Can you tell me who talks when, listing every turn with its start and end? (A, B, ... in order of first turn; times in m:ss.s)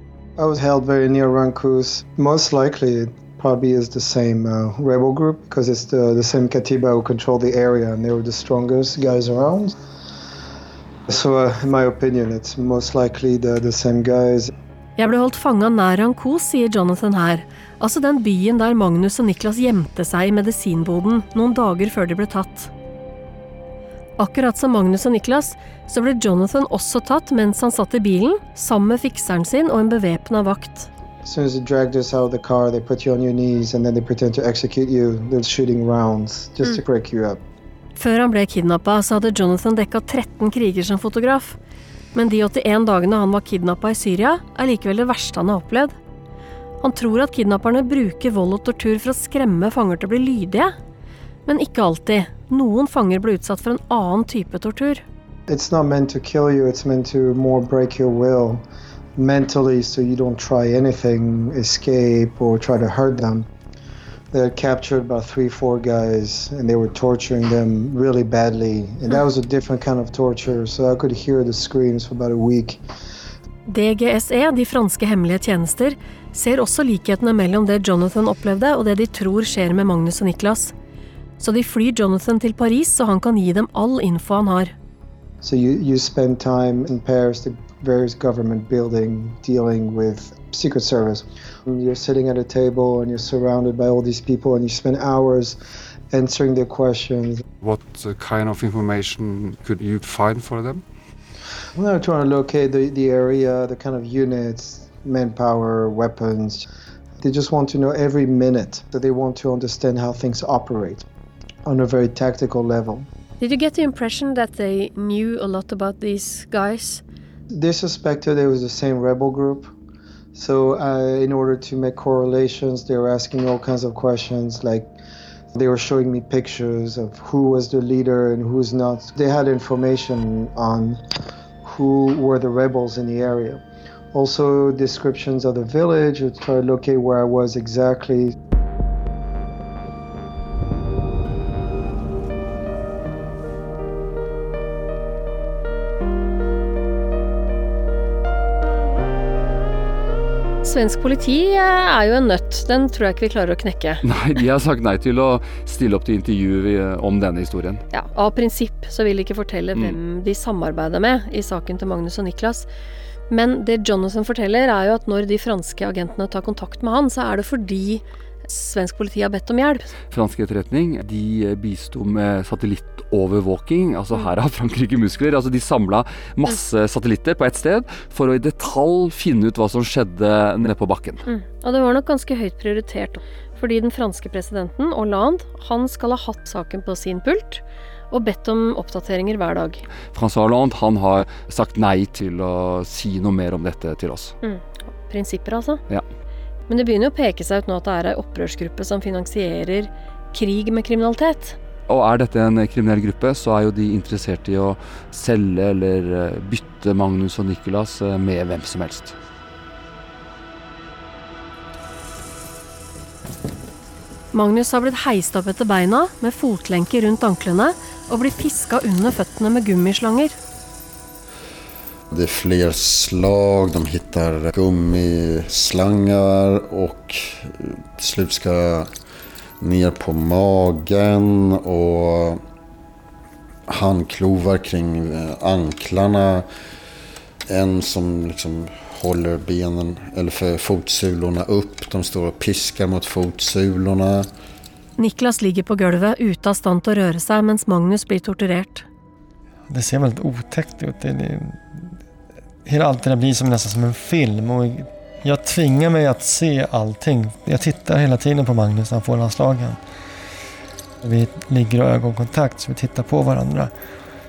0:00.4-0:09.7 A
0:11.1-0:14.5 A
0:15.0-0:22.7 B
0:24.2-0:30.9 B
0:31.2-0:37.4 A
0:38.0-0:41.6 B
0:42.1-0:45.9 B
0:46.8-0:50.7 B
0:51.4-0:55.0 B
0:55.5-0:58.6 A
0:59.2-1:03.5 A
1:04.3-1:12.8 A
1:13.7-1:20.7 B
1:21.4-1:24.7 B
1:25.4-1:35.6 A
1:36.1-1:37.4 A
1:37.6-1:40.8 C
1:41.8-1:46.6 A
1:47.2-1:51.0 A
1:51.6-1:53.1 A
1:53.4-1:57.0 B
1:57.5-1:59.7 A
2:00.3-2:04.9 A
2:05.5-2:11.0 A
2:11.6-2:18.3 A
2:30.6-2:34.0 B
2:34.0-2:37.8 D
2:37.9-2:42.7 B
2:43.3-2:49.9 B
2:50.1-3:01.2 D
3:01.2-3:09.8 B
3:10.1-3:14.3 D
3:14.4-3:15.8 B
3:16.7-3:21.6 B
3:21.9-3:29.1 D
3:34.3-3:40.4 B
3:42.1-3:48.9 E
3:49.6-3:52.4 E
3:53.7-3:56.4 E
3:57.5-4:04.3 E
4:05.0-4:08.8 B
4:09.7-4:11.9 F
4:12.6-4:19.8 F
4:21.0-4:23.7 F